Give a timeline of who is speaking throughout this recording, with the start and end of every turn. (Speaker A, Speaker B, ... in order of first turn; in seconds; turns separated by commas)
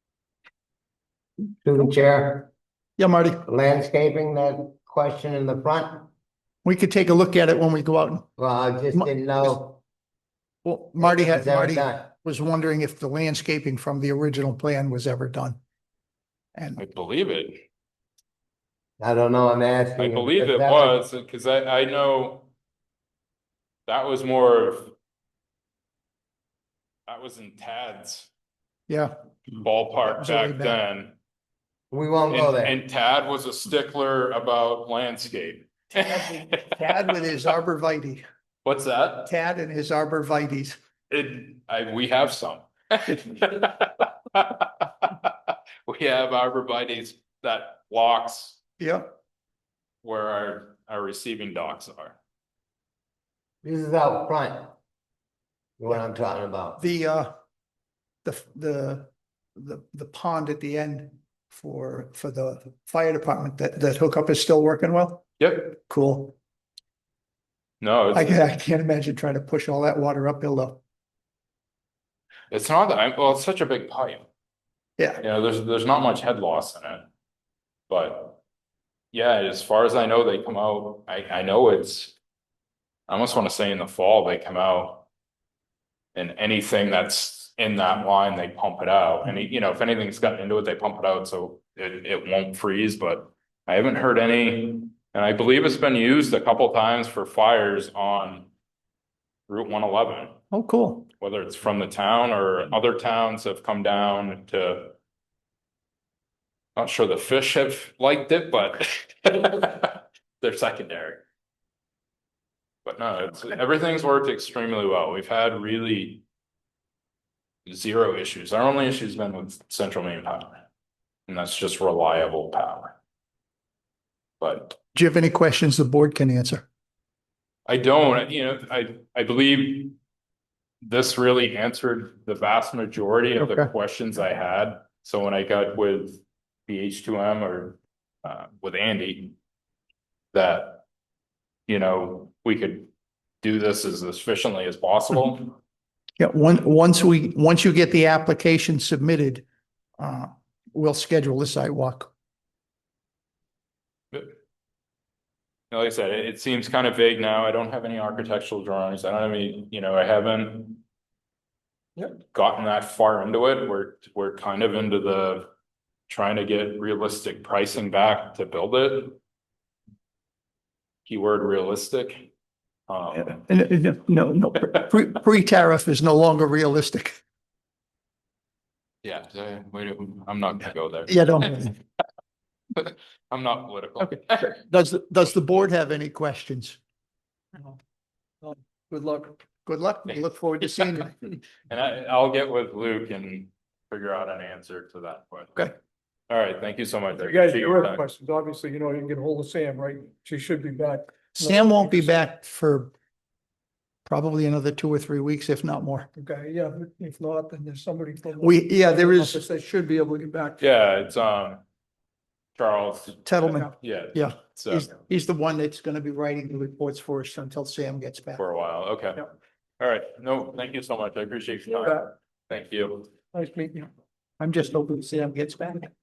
Speaker A: 1.6-2.5, Speaker B: 3.0-3.5, Speaker A: 3.5-6.1, Speaker B: 6.6-8.3, Speaker A: 8.4-9.8, Speaker B: 8.9-9.5, Speaker B: 10.6-15.6, Speaker A: 11.0-12.1, Speaker B: 16.5-16.8, Speaker C: 16.8-17.6, Speaker A: 19.0-21.0, Speaker C: 20.0-22.5, Speaker C: 23.9-24.9, Speaker C: 27.1-28.3, Speaker B: 28.9-29.1, Speaker C: 29.5-31.1, Speaker B: 30.0-30.8, Speaker A: 31.9-32.8, Speaker C: 32.3-37.1, Speaker B: 35.9-38.2, Speaker C: 38.6-39.3, Speaker B: 39.2-40.8, Speaker C: 41.1-45.3, Speaker C: 45.9-48.6, Speaker B: 48.8-49.1, Speaker C: 50.0-52.2, Speaker A: 53.6-54.7, Speaker A: 55.8-56.8, Speaker B: 56.8-57.3, Speaker B: 58.2-66.3, Speaker C: 65.4-65.7, Speaker C: 67.8-68.4, Speaker B: 68.1-70.8, Speaker C: 72.5-74.2, Speaker C: 75.2-77.1, Speaker C: 77.9-78.4, Speaker C: 79.1-82.1, Speaker C: 83.1-85.0, Speaker C: 86.1-98.5, Speaker C: 99.5-100.4, Speaker B: 100.5-101.1, Speaker C: 101.2-105.0, Speaker C: 106.8-111.2, Speaker C: 112.8-116.2, Speaker C: 117.7-120.6, Speaker C: 121.3-122.9, Speaker C: 124.4-124.8, Speaker B: 124.9-126.7, Speaker C: 127.7-129.9, Speaker C: 130.8-139.3, Speaker B: 133.4-133.7, Speaker C: 140.3-140.8, Speaker C: 141.7-142.9, Speaker C: 143.4-145.6, Speaker B: 146.2-149.4, Speaker B: 150.0-152.1, Speaker C: 155.7-160.8, Speaker C: 162.3-165.5, Speaker C: 166.1-169.2, Speaker C: 171.1-172.3, Speaker C: 172.9-173.4, Speaker B: 173.1-177.2, Speaker C: 179.0-181.7, Speaker B: 181.1-181.7, Speaker C: 182.8-184.5, Speaker B: 184.0-186.8, Speaker D: 188.4-189.4, Speaker B: 189.6-191.1, Speaker C: 191.7-195.7, Speaker C: 196.3-198.0, Speaker D: 197.2-202.1, Speaker B: 201.4-202.9, Speaker B: 204.1-206.1, Speaker D: 206.1-210.6, Speaker B: 208.4-209.4, Speaker C: 210.6-211.6, Speaker C: 212.6-214.9, Speaker B: 213.2-218.4, Speaker C: 218.3-219.3, Speaker C: 219.8-223.1, Speaker D: 223.3-223.9, Speaker B: 224.4-225.9